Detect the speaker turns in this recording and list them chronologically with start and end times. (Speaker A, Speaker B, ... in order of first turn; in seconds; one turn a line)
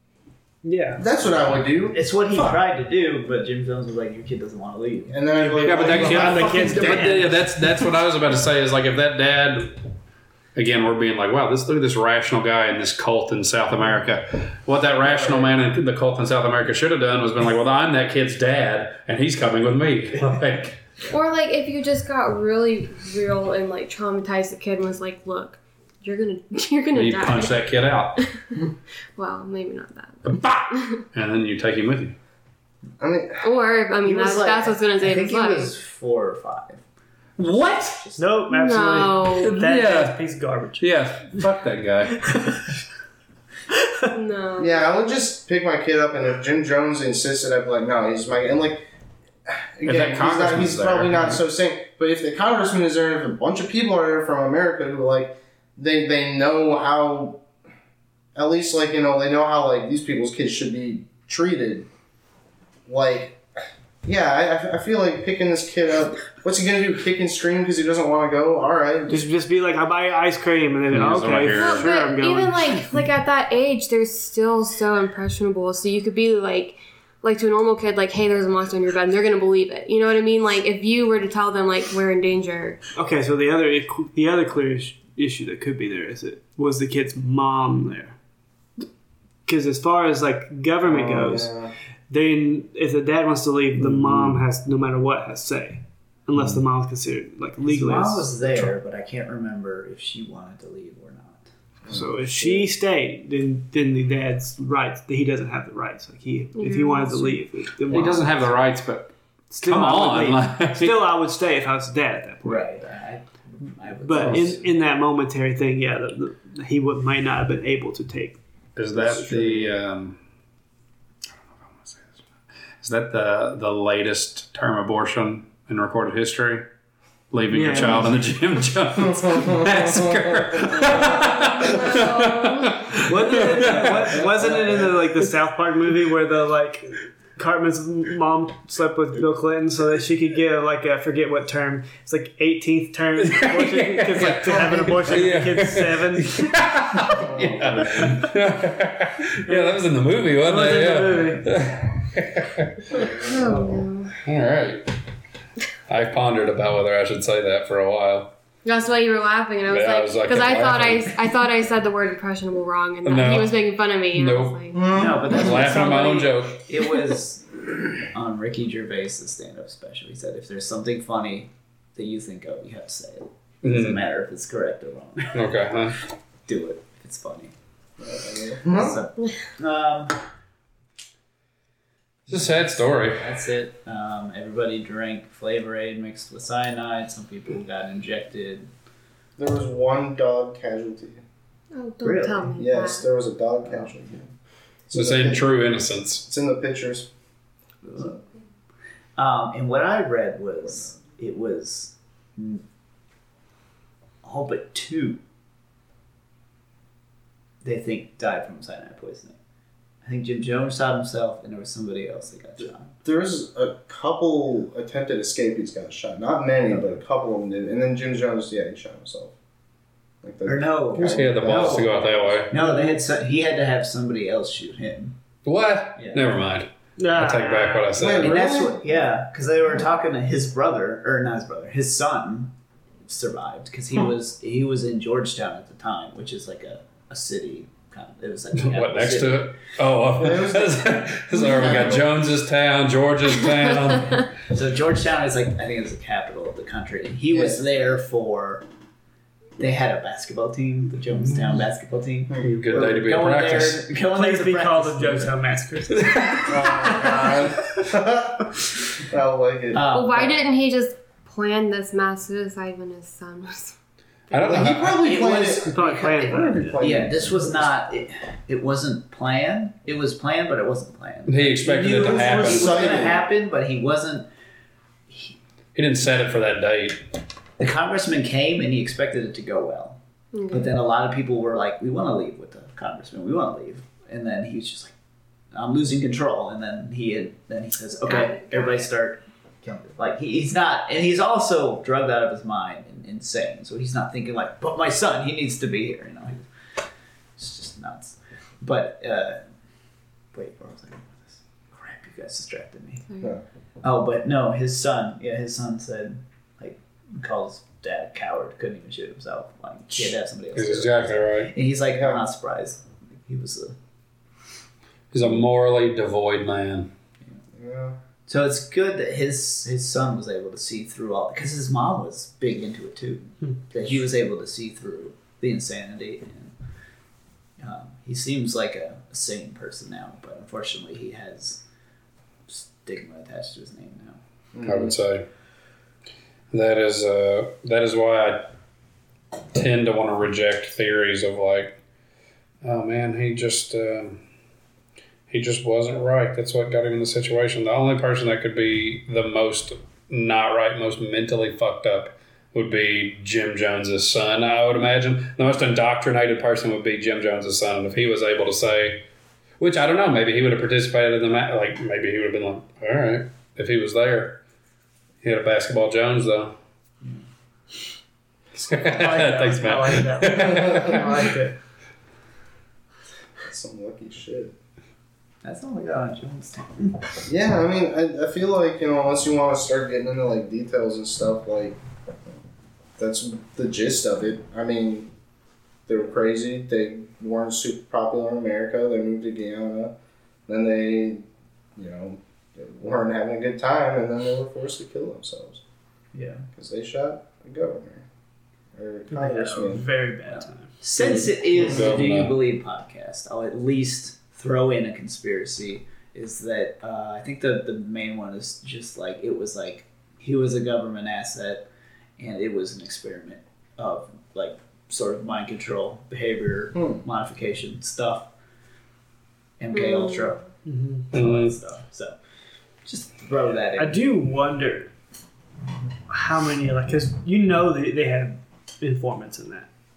Speaker A: 0.6-1.0
Speaker B: 1.0-2.5
Speaker C: 1.9-5.2
Speaker B: 5.1-7.3
Speaker A: 5.4-7.3
Speaker D: 5.6-9.8
Speaker D: 10.5-20.8
Speaker B: 15.1-15.5
Speaker E: 21.1-27.6
Speaker D: 26.9-28.1
Speaker E: 28.2-28.4
Speaker E: 29.1-31.0
Speaker D: 30.2-32.2
Speaker B: 33.0-33.5
Speaker E: 33.4-35.7
Speaker C: 34.0-36.8
Speaker D: 37.4-38.0
Speaker C: 38.0-38.2
Speaker A: 38.2-40.9
Speaker E: 38.5-39.6
Speaker D: 39.4-40.2
Speaker D: 40.8-42.4
Speaker A: 42.2-42.8
Speaker A: 43.7-44.0
Speaker E: 44.1-44.9
Speaker B: 44.6-48.9
Speaker B: 49.5-57.4
Speaker D: 49.8-51.4
Speaker B: 58.3-61.9
Speaker B: 62.9-63.4
Speaker B: 64.0-69.3
Speaker A: 69.1-72.8
Speaker D: 70.9-71.9
Speaker E: 71.5-82.8
Speaker A: 82.9-88.2
Speaker A: 89.5-91.5
Speaker B: 90.8-91.7
Speaker A: 92.1-98.7
Speaker D: 94.1-94.4
Speaker C: 97.6-101.5
Speaker B: 101.8-102.2
Speaker A: 101.9-108.4
Speaker E: 106.6-107.4
Speaker D: 107.9-111.1
Speaker A: 109.5-112.8
Speaker C: 112.4-114.7
Speaker A: 114.0-118.4
Speaker D: 118.8-120.2
Speaker B: 119.0-119.7
Speaker D: 121.4-122.2
Speaker D: 122.8-126.7
Speaker D: 127.3-134.2
Speaker A: 127.5-128.1
Speaker B: 129.0-131.0
Speaker E: 131.0-133.0
Speaker A: 133.0-146.5
Speaker B: 134.4-134.8
Speaker D: 143.2-152.9
Speaker B: 147.1-148.2
Speaker A: 149.4-151.5
Speaker E: 152.9-154.2
Speaker B: 153.0-153.2
Speaker D: 154.2-154.9
Speaker D: 155.9-158.3
Speaker E: 158.6-166.3
Speaker D: 159.7-161.2
Speaker D: 163.0-163.6
Speaker D: 164.1-164.6
Speaker B: 164.7-165.6
Speaker C: 164.9-175.5
Speaker D: 165.3-166.6
Speaker D: 173.6-174.0
Speaker D: 175.3-176.1
Speaker C: 176.4-177.5
Speaker B: 178.0-179.0
Speaker C: 178.7-180.2
Speaker C: 182.3-188.7
Speaker D: 182.3-183.4
Speaker B: 189.4-191.2
Speaker E: 191.7-193.1
Speaker C: 192.0-192.5
Speaker B: 192.6-194.3
Speaker C: 193.7-193.9
Speaker B: 194.9-195.4
Speaker D: 194.9-196.2
Speaker B: 196.2-197.1
Speaker C: 197.8-198.1
Speaker C: 199.2-202.6
Speaker C: 204.2-205.2
Speaker C: 207.6-209.4
Speaker C: 210.0-212.9
Speaker B: 213.0-219.3
Speaker C: 216.7-217.0
Speaker B: 220.2-222.1
Speaker C: 220.4-225.2
Speaker D: 220.9-222.5
Speaker A: 222.5-223.0
Speaker D: 225.4-228.4
Speaker C: 225.9-226.3
Speaker A: 227.0-228.0
Speaker B: 227.9-228.8
Speaker C: 228.2-239.5
Speaker D: 238.5-244.2
Speaker B: 240.2-242.1
Speaker C: 241.5-241.8
Speaker C: 244.3-248.6
Speaker B: 247.3-247.6
Speaker C: 249.6-255.3
Speaker B: 252.3-252.6
Speaker D: 252.4-253.9
Speaker A: 254.1-257.0
Speaker B: 256.4-259.8
Speaker C: 259.7-260.4
Speaker E: 259.9-263.7
Speaker D: 264.3-265.1
Speaker B: 264.3-267.7
Speaker C: 264.9-274.3
Speaker A: 265.6-266.8
Speaker D: 271.3-273.1
Speaker B: 271.9-273.2
Speaker C: 275.1-275.3
Speaker D: 275.7-277.0
Speaker C: 277.6-280.0
Speaker E: 280.3-280.7
Speaker C: 280.5-284.9
Speaker C: 285.5-296.5
Speaker E: 288.0-288.9
Speaker C: 297.4-299.4
Speaker C: 300.3-303.1
Speaker C: 303.8-313.8
Speaker D: 310.5-311.5
Speaker B: 311.9-312.2
Speaker D: 315.1-316.9
Speaker B: 317.5-318.0
Speaker C: 318.3-326.5
Speaker C: 327.6-331.6
Speaker C: 332.5-334.2
Speaker B: 334.5-334.9
Speaker D: 334.6-335.3
Speaker D: 336.5-338.5
Speaker D: 339.5-341.8
Speaker D: 342.6-344.2
Speaker D: 345.3-359.0
Speaker D: 359.6-364.4
Speaker D: 365.2-366.6
Speaker D: 368.7-371.3
Speaker C: 368.7-370.1
Speaker A: 369.0-371.6
Speaker B: 370.4-371.0
Speaker B: 373.4-374.5
Speaker C: 375.4-377.2
Speaker B: 377.3-381.8
Speaker B: 383.0-385.1
Speaker B: 385.9-389.9
Speaker B: 390.5-395.6
Speaker C: 396.1-396.5
Speaker B: 396.5-398.0
Speaker B: 398.7-399.9
Speaker A: 399.1-400.8
Speaker C: 400.3-411.6
Speaker D: 401.0-402.4
Speaker B: 401.6-402.1
Speaker C: 412.2-418.3
Speaker B: 416.7-417.0
Speaker C: 419.6-420.4
Speaker E: 419.7-420.3
Speaker A: 420.6-421.1
Speaker C: 421.1-422.1
Speaker D: 421.1-421.6
Speaker C: 422.8-424.0
Speaker A: 423.8-424.9
Speaker A: 426.1-429.7